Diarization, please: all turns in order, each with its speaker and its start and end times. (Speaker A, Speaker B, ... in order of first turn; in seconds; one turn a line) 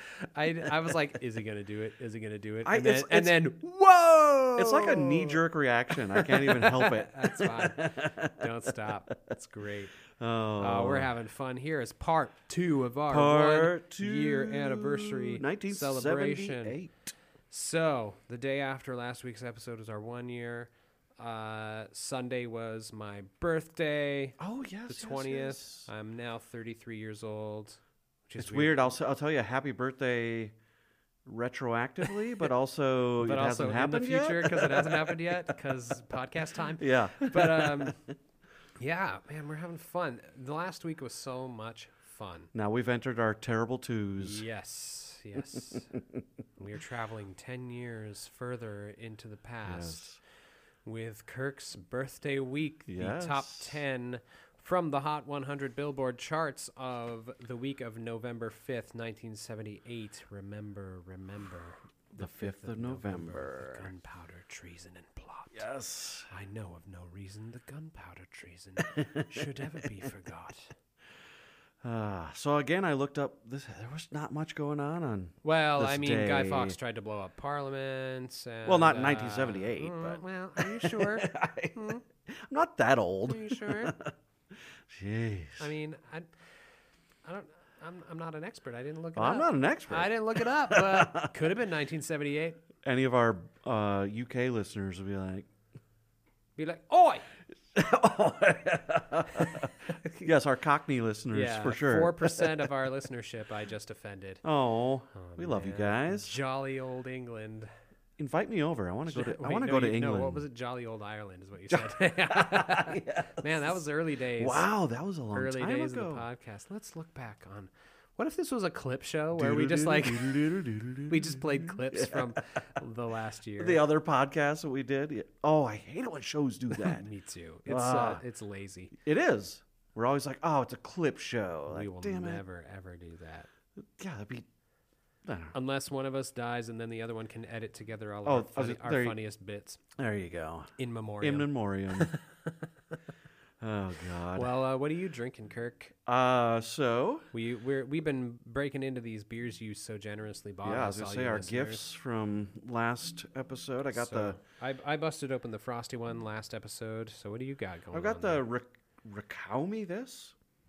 Speaker A: 0.2-5.4
Speaker B: 2.6-3.6
Speaker B: 4.5-8.7
Speaker A: 6.1-10.0
Speaker B: 10.1-11.1
Speaker A: 10.6-16.8
Speaker B: 13.1-17.1
Speaker A: 17.5-28.9
Speaker B: 24.4-25.9
Speaker B: 28.4-30.6
Speaker B: 31.2-35.5
Speaker A: 33.2-38.0
Speaker B: 36.8-38.1
Speaker A: 38.8-42.5
Speaker B: 42.5-44.5
Speaker A: 44.2-45.9
Speaker B: 45.4-46.2
Speaker A: 46.6-50.1
Speaker B: 49.6-50.2
Speaker A: 50.9-65.7
Speaker B: 52.9-53.8
Speaker B: 62.1-63.9
Speaker B: 65.5-66.3
Speaker A: 66.3-70.7
Speaker B: 68.9-69.9
Speaker B: 71.8-76.8
Speaker A: 75.4-82.0
Speaker B: 78.7-84.1
Speaker A: 83.3-83.9
Speaker B: 84.9-85.7
Speaker A: 85.6-86.3
Speaker A: 87.2-92.6
Speaker B: 89.2-91.4
Speaker B: 92.8-95.5
Speaker A: 96.6-97.3
Speaker B: 97.7-102.7
Speaker A: 99.9-100.3
Speaker A: 101.3-104.5
Speaker B: 104.4-106.4
Speaker A: 105.1-107.7
Speaker B: 108.2-110.5
Speaker A: 109.1-114.7
Speaker B: 111.7-113.8
Speaker B: 114.4-116.2
Speaker A: 115.3-120.5
Speaker B: 119.3-122.6
Speaker A: 121.1-123.8
Speaker B: 123.6-127.1
Speaker A: 126.7-128.9
Speaker B: 127.7-128.2
Speaker B: 128.9-132.4
Speaker A: 131.7-133.5
Speaker B: 134.0-134.5
Speaker B: 135.2-135.6
Speaker A: 135.5-139.8
Speaker B: 138.2-139.2
Speaker B: 140.0-142.1
Speaker A: 140.8-142.2
Speaker B: 143.6-144.5
Speaker A: 144.3-145.9
Speaker B: 146.1-147.3
Speaker A: 147.3-151.8
Speaker B: 150.6-154.4
Speaker A: 153.9-158.4
Speaker B: 157.9-160.3